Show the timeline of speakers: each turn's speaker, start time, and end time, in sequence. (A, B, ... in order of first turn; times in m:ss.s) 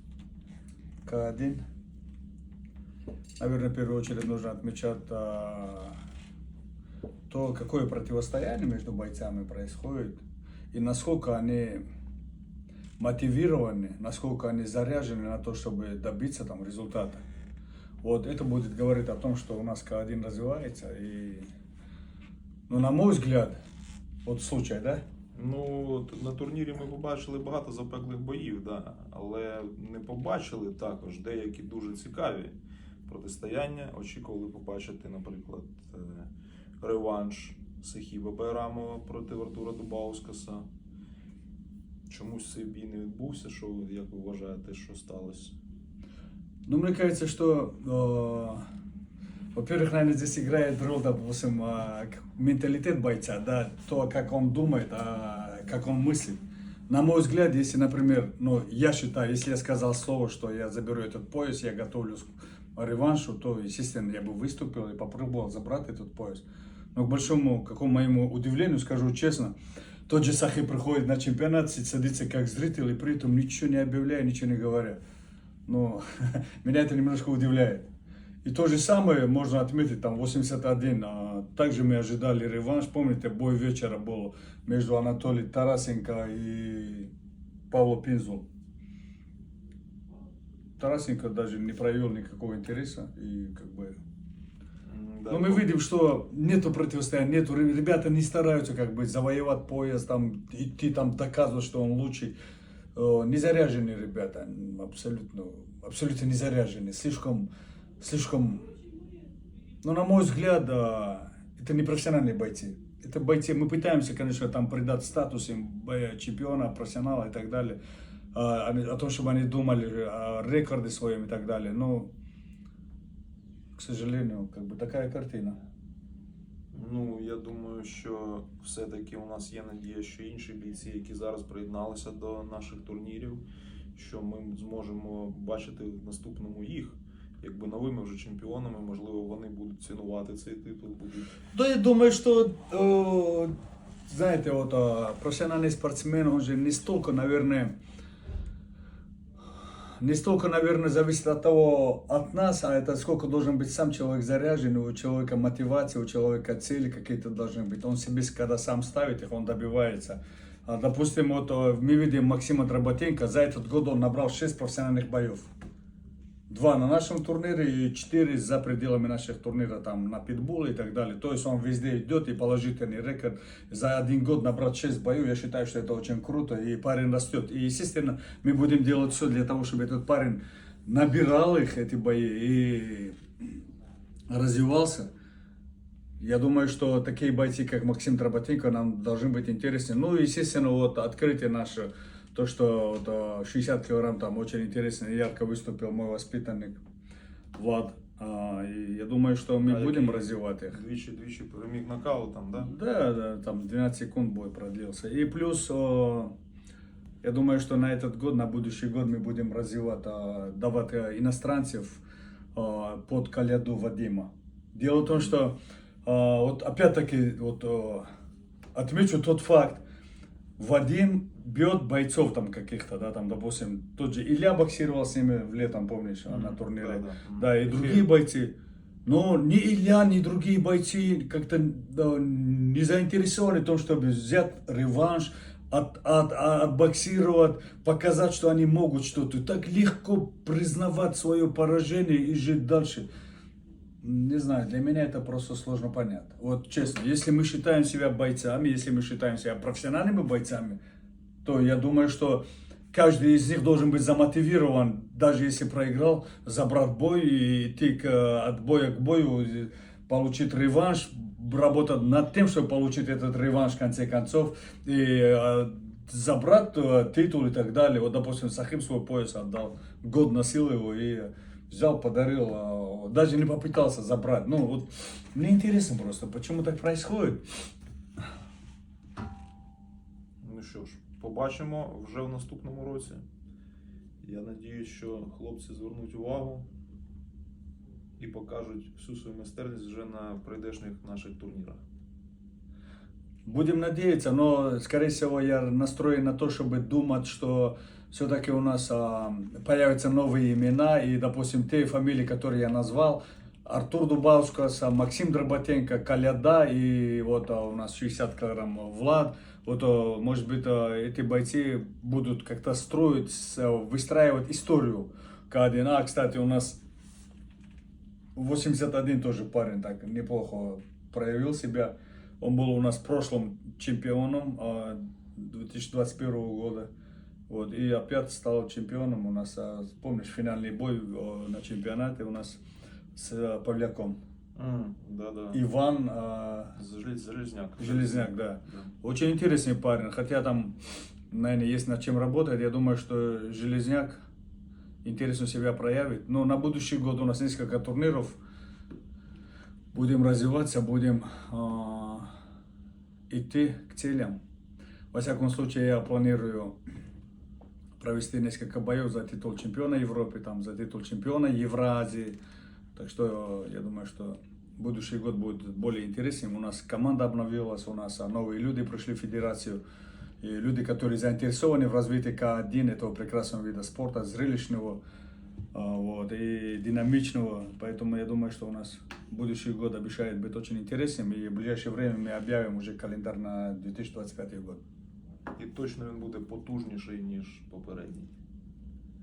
0:01.0-0:01.6 A
0:03.4-0:06.0 A
0:07.3-0:10.2 A
0:10.7-0:11.8 A
0:13.0-0:17.2 A
0:18.0-0:21.5 A
0:22.7-0:23.6 A
0:24.2-0:25.0 A
0:25.3-0:40.7 B
0:42.1-0:45.6 B
0:46.7-0:48.6 A
0:49.6-1:06.4 A
1:07.0-1:09.6 A
1:10.1-1:15.0 A
1:15.7-1:17.9 A
1:18.4-1:27.1 A
1:27.7-1:28.5 A
1:30.8-1:34.0 A
1:34.8-1:35.7 B
1:35.3-1:42.4 A
1:43.0-1:47.5 A
1:48.0-1:48.7 A
1:49.8-1:57.8 A
1:58.3-2:02.1 A
2:03.8-2:05.6 A
2:06.7-2:13.4 B
2:14.0-2:21.4 B
2:21.5-2:23.5 A
2:24.1-2:27.7 A
2:30.0-2:45.5 A
2:46.5-3:03.2 A
3:04.3-3:05.1 A
3:06.2-3:16.8 A
3:17.6-3:20.8 A
3:19.6-3:22.7 B
3:22.6-3:26.3 A
3:27.2-3:32.0 A
3:32.6-3:38.1 A
3:38.8-3:39.8 A
3:40.6-3:48.5 A
3:46.3-3:48.1 B
3:49.1-4:03.1 A
4:04.0-4:10.8 A
4:11.4-4:37.4 A
4:40.4-4:43.2 B
4:44.2-4:46.7 B
4:48.2-4:51.8 B
4:53.5-5:16.8 A
5:18.4-5:26.9 A
5:27.5-5:32.6 A
5:33.2-5:34.2 A
5:34.6-5:35.6 B
5:35.5-5:36.8 A
5:36.8-5:38.9 B
5:37.8-5:40.8 A
5:41.3-5:44.2 A
5:45.0-5:48.4 A
5:49.9-5:52.3 A
5:53.3-5:54.4 A
5:55.1-5:56.8 A
5:58.0-6:02.4 A
6:03.0-6:09.8 A
6:10.4-6:15.0 A
6:15.7-6:24.8 A
6:25.6-6:28.3 B